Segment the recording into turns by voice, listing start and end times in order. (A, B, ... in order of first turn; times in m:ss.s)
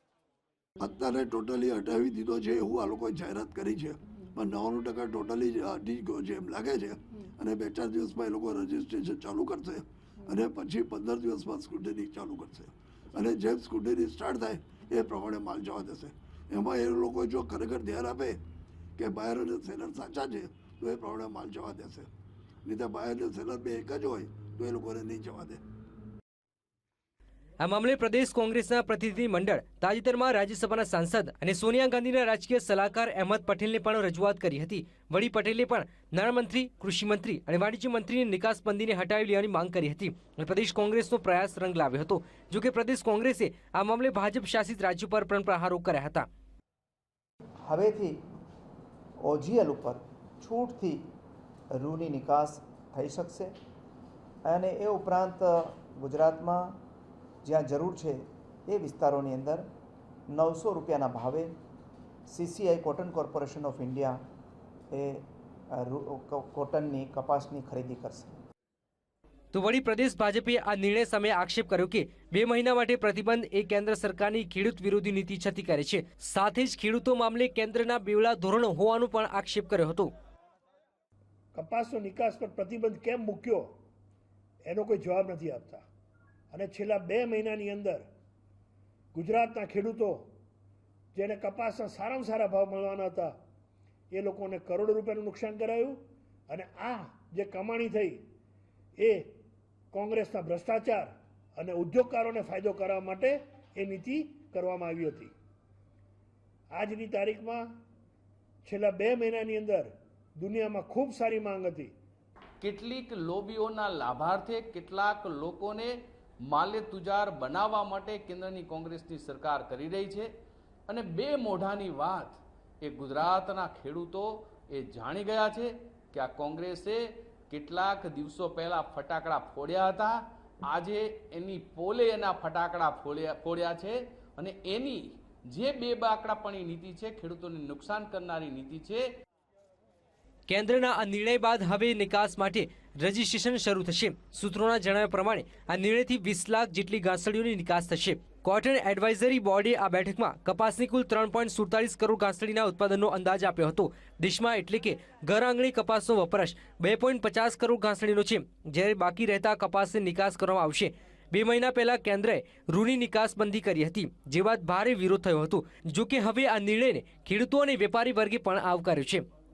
0:00.8-0:18.4 A
0:19.0-0:22.1 A
0:22.6-0:25.6 A
0:27.6-0:46.3 B
0:47.7-0:48.2 C
0:49.2-0:51.0 C
0:51.7-0:53.5 C
0:54.5-0:56.8 C
0:57.4-0:59.7 C
1:00.3-1:01.5 C
1:02.3-1:04.2 C
1:04.9-1:08.4 C
1:09.5-1:20.1 B
1:21.5-1:23.7 D
1:24.6-1:25.8 D
1:26.5-1:28.0 D
1:29.1-1:30.3 D
1:31.2-1:33.3 D
1:34.1-1:38.2 D
1:39.0-1:39.3 D
1:39.9-1:45.3 D
1:46.7-1:47.6 D
1:48.6-1:51.9 D
1:52.6-1:55.9 E
1:56.5-2:00.3 E
2:00.9-2:19.0 E
2:20.5-2:49.2 B